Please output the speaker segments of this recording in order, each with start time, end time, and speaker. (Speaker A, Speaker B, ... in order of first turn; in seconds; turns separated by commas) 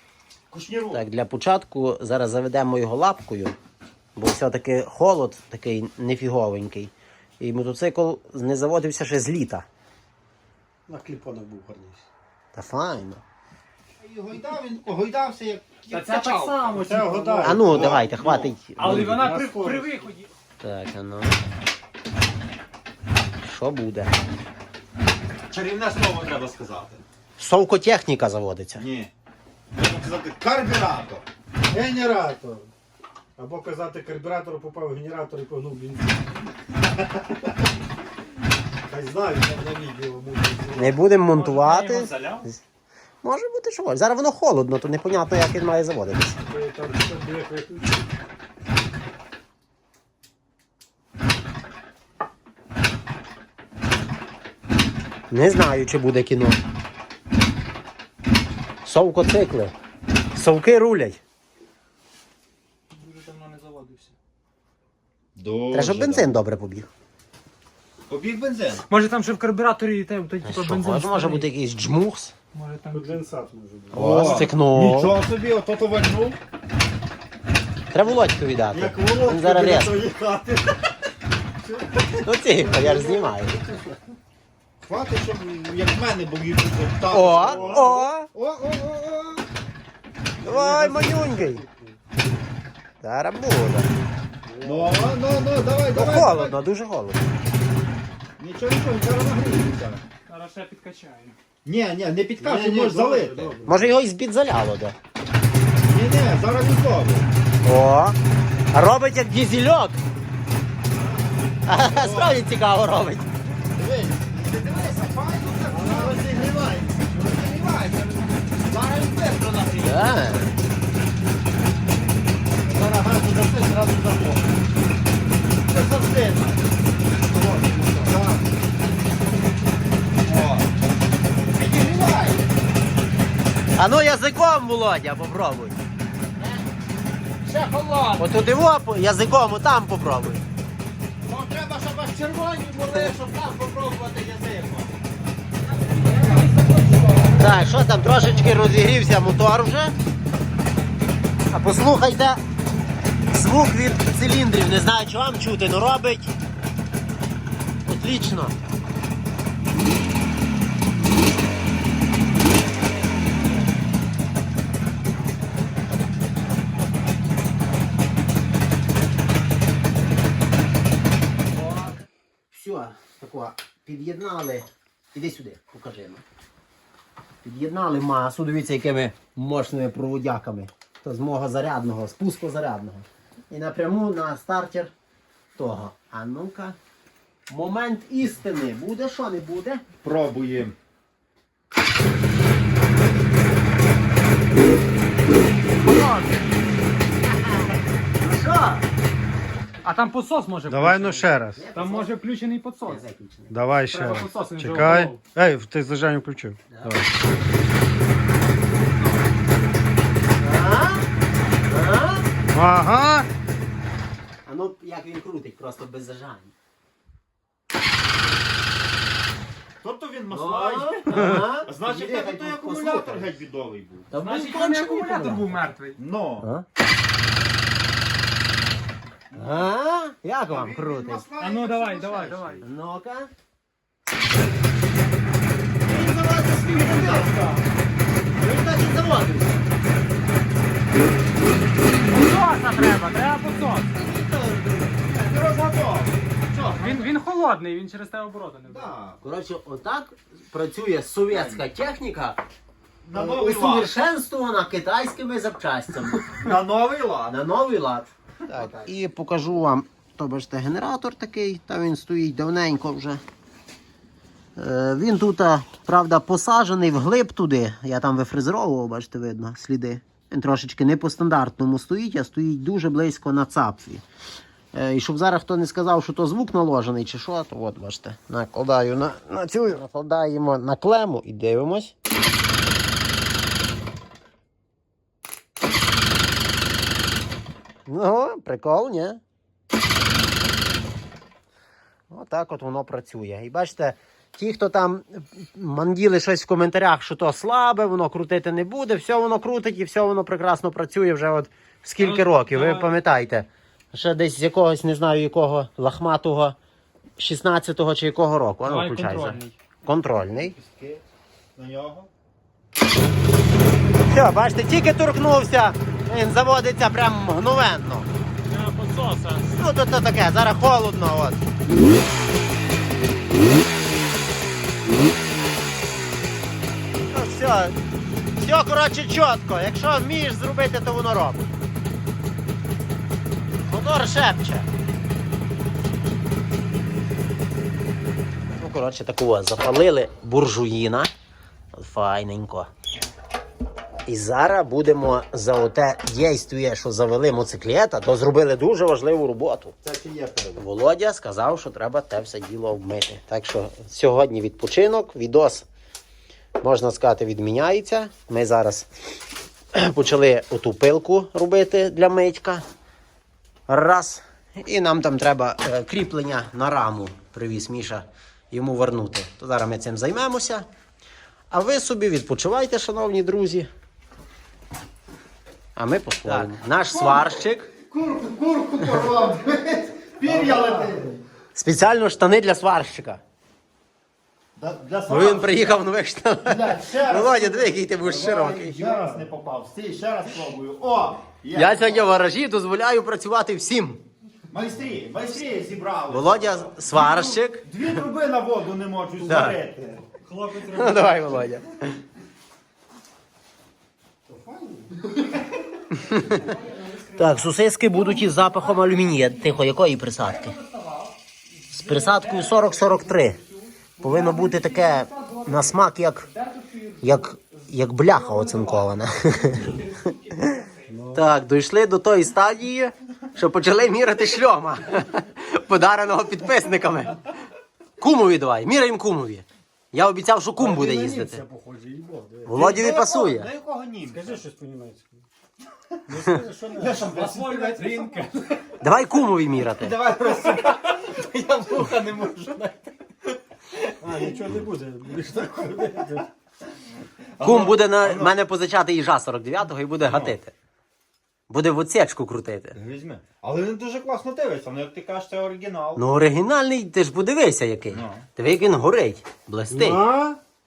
Speaker A: 0.5-1.0, Speaker B: 0.9-3.5, Speaker B: 4.2-9.7, Speaker C: 10.9-12.0, Speaker B: 12.5-13.2, Speaker A: 14.0-18.6, Speaker D: 15.9-17.1, Speaker C: 16.7-17.9, Speaker B: 17.4-19.3, Speaker D: 18.8-20.3, Speaker C: 18.8-19.9, Speaker B: 20.6-21.4, Speaker B: 23.4-24.1, Speaker A: 25.5-27.0, Speaker B: 27.4-28.8, Speaker A: 28.8-29.1, Speaker A: 29.7-31.2, Speaker C: 31.7-32.7, Speaker C: 33.4-36.3, Speaker C: 38.9-41.0, Speaker B: 40.8-42.6, Speaker D: 41.2-42.5, Speaker B: 43.2-46.4, Speaker C: 46.5-47.9, Speaker B: 55.3-56.6, Speaker B: 58.8-59.7, Speaker B: 60.3-61.2, Speaker D: 62.9-64.1, Speaker A: 65.3-66.3, Speaker B: 65.7-66.9, Speaker A: 68.1-68.8, Speaker D: 68.9-71.5, Speaker B: 70.4-72.3, Speaker D: 72.5-73.2, Speaker C: 72.9-74.1, Speaker B: 73.9-75.2, Speaker A: 73.9-76.4, Speaker B: 77.9-80.0, Speaker C: 78.7-80.6, Speaker A: 79.9-80.7, Speaker C: 81.7-84.0, Speaker B: 82.2-83.6, Speaker A: 84.8-89.5, Speaker B: 87.1-88.3, Speaker C: 87.4-87.9, Speaker A: 90.4-91.1, Speaker B: 90.4-91.6, Speaker C: 90.8-92.0, Speaker B: 93.0-93.9, Speaker C: 94.5-95.0, Speaker A: 94.6-96.6, Speaker B: 95.9-97.2, Speaker A: 98.4-100.0, Speaker D: 100.3-101.4, Speaker A: 101.6-103.6, Speaker C: 102.4-103.9, Speaker B: 103.7-104.9, Speaker A: 105.8-107.3, Speaker B: 107.6-108.2, Speaker B: 108.7-110.0, Speaker B: 111.7-113.3, Speaker A: 111.7-112.4, Speaker A: 113.6-120.2, Speaker C: 115.7-116.2, Speaker B: 119.8-120.5, Speaker A: 122.6-124.5, Speaker A: 125.7-126.6, Speaker A: 127.3-128.4, Speaker A: 130.2-130.7, Speaker A: 131.5-132.5, Speaker B: 133.8-135.8, Speaker D: 137.4-138.2, Speaker B: 138.2-140.4, Speaker B: 141.3-144.9, Speaker D: 145.8-147.7, Speaker B: 147.3-149.9, Speaker B: 151.5-152.4, Speaker B: 153.3-156.3, Speaker B: 157.8-158.6, Speaker B: 171.6-171.9, Speaker B: 172.5-176.2, Speaker B: 177.4-184.9, Speaker B: 185.6-186.8, Speaker B: 187.5-189.8, Speaker A: 190.0-190.8, Speaker B: 198.2-198.8, Speaker D: 199.8-203.0, Speaker C: 200.7-201.6, Speaker B: 201.6-202.2, Speaker B: 202.8-203.6, Speaker C: 203.5-207.1, Speaker D: 203.8-205.2, Speaker B: 206.7-207.0, Speaker B: 210.4-211.0, Speaker B: 211.6-212.3, Speaker C: 212.5-213.3, Speaker B: 214.4-216.5, Speaker A: 219.8-226.5, Speaker B: 220.3-223.3, Speaker C: 221.1-221.4, Speaker B: 224.1-224.8, Speaker D: 224.1-226.0, Speaker A: 229.3-229.7, Speaker B: 229.3-231.2, Speaker A: 230.4-232.6, Speaker D: 231.4-232.6, Speaker B: 232.6-233.3, Speaker B: 235.8-237.4, Speaker A: 236.8-237.3, Speaker B: 238.4-239.7, Speaker D: 242.1-244.0, Speaker B: 244.0-245.2, Speaker A: 245.2-246.2, Speaker D: 246.6-248.9, Speaker A: 248.6-249.2, Speaker B: 249.2-252.4, Speaker A: 251.3-251.6, Speaker A: 253.0-253.9, Speaker B: 253.1-256.4, Speaker A: 256.3-257.4, Speaker B: 257.3-263.2, Speaker B: 264.6-274.0, Speaker B: 274.7-281.9, Speaker B: 287.9-289.2, Speaker B: 292.1-306.6, Speaker D: 302.0-302.9, Speaker B: 307.2-310.5, Speaker D: 308.6-309.5, Speaker A: 310.2-311.0, Speaker A: 311.6-312.1, Speaker B: 314.1-318.1, Speaker D: 318.5-319.6, Speaker B: 319.5-321.4, Speaker B: 327.1-327.8, Speaker B: 328.4-331.5, Speaker B: 333.7-334.7, Speaker B: 338.6-341.1, Speaker B: 341.7-342.7, Speaker B: 344.1-349.7, Speaker A: 349.8-350.6, Speaker B: 350.6-355.7, Speaker B: 356.6-358.9, Speaker B: 359.7-362.6, Speaker B: 363.7-370.6, Speaker B: 371.5-373.7, Speaker B: 375.8-377.7, Speaker A: 376.9-377.2, Speaker A: 377.9-381.2, Speaker C: 378.1-380.9, Speaker B: 381.5-383.2, Speaker A: 384.6-385.8, Speaker B: 385.1-388.8, Speaker A: 386.4-392.1, Speaker C: 388.8-389.2, Speaker B: 391.5-394.0, Speaker A: 394.5-400.1, Speaker B: 396.1-397.6, Speaker B: 399.2-399.6, Speaker C: 400.2-401.0, Speaker D: 400.6-401.4, Speaker B: 400.7-401.9, Speaker C: 404.3-405.3, Speaker B: 405.9-406.5, Speaker D: 406.2-407.5, Speaker B: 407.1-410.6, Speaker D: 408.0-408.6, Speaker D: 410.2-421.0, Speaker B: 411.7-413.4, Speaker B: 414.0-416.3, Speaker B: 417.0-419.8, Speaker C: 420.9-421.2, Speaker B: 421.1-427.2, Speaker B: 428.0-431.4, Speaker C: 430.6-432.6, Speaker B: 432.4-433.5, Speaker A: 432.5-434.4, Speaker C: 434.1-435.2, Speaker C: 436.1-438.6, Speaker A: 436.7-438.1, Speaker B: 438.8-439.9, Speaker A: 439.7-443.3, Speaker C: 444.0-446.3, Speaker A: 447.4-448.3, Speaker B: 447.4-450.5, Speaker A: 450.0-450.4, Speaker B: 451.5-452.8, Speaker A: 452.7-456.0, Speaker B: 456.0-460.1, Speaker A: 457.9-458.2, Speaker C: 459.7-460.4